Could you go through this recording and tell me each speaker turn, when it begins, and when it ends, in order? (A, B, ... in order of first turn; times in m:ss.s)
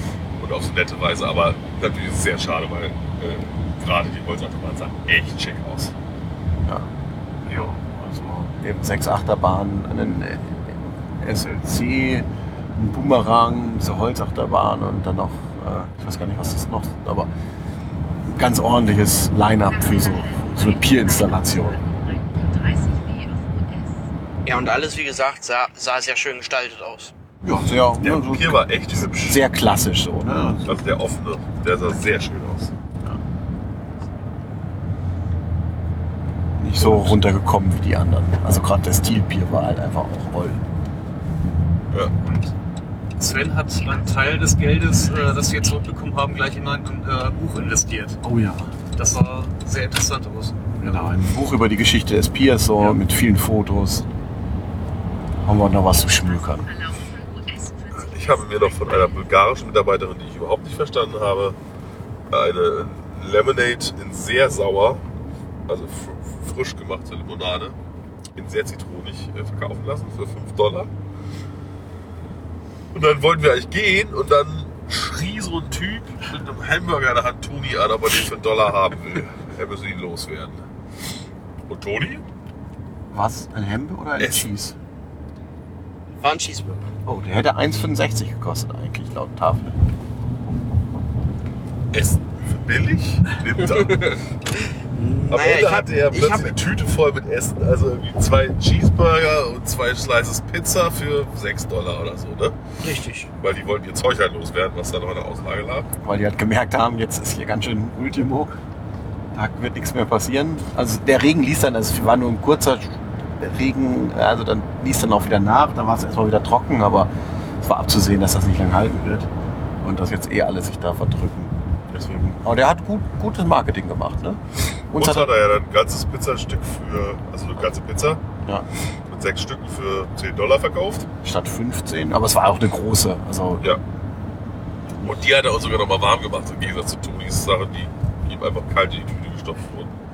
0:00.4-0:05.9 A
0:07.4-0:17.3 B
0:18.2-0:21.8 B
0:19.7-0:24.0 C
0:24.4-0:27.1 D
0:27.4-0:30.9 B
0:28.0-0:29.4 A
0:30.7-0:32.7 A
0:36.6-0:40.6 B
0:36.8-0:37.1 A
0:42.2-0:42.5 E
0:43.2-0:48.2 E
0:48.2-0:48.8 B
0:48.9-0:51.1 E
0:50.7-0:54.1 B
0:55.4-0:56.7 B
0:56.0-0:59.2 C
0:57.9-1:01.6 A
1:02.3-1:05.1 A
1:05.7-1:07.8 A
1:08.4-1:10.9 A
1:12.9-1:20.6 A
1:21.7-1:22.2 A
1:23.1-1:24.8 B
1:24.2-1:24.5 A
1:26.2-1:26.9 D
1:27.1-1:29.8 B
1:31.9-1:34.4 A
1:34.9-1:36.6 D
1:35.3-1:42.6 A
1:42.8-1:43.3 D
1:43.4-1:45.9 A
1:46.0-1:48.6 B
1:49.3-1:59.3 B
1:59.8-2:05.3 B
2:05.0-2:08.2 A
2:09.1-2:11.1 A
2:11.2-2:13.7 B
2:15.0-2:20.0 A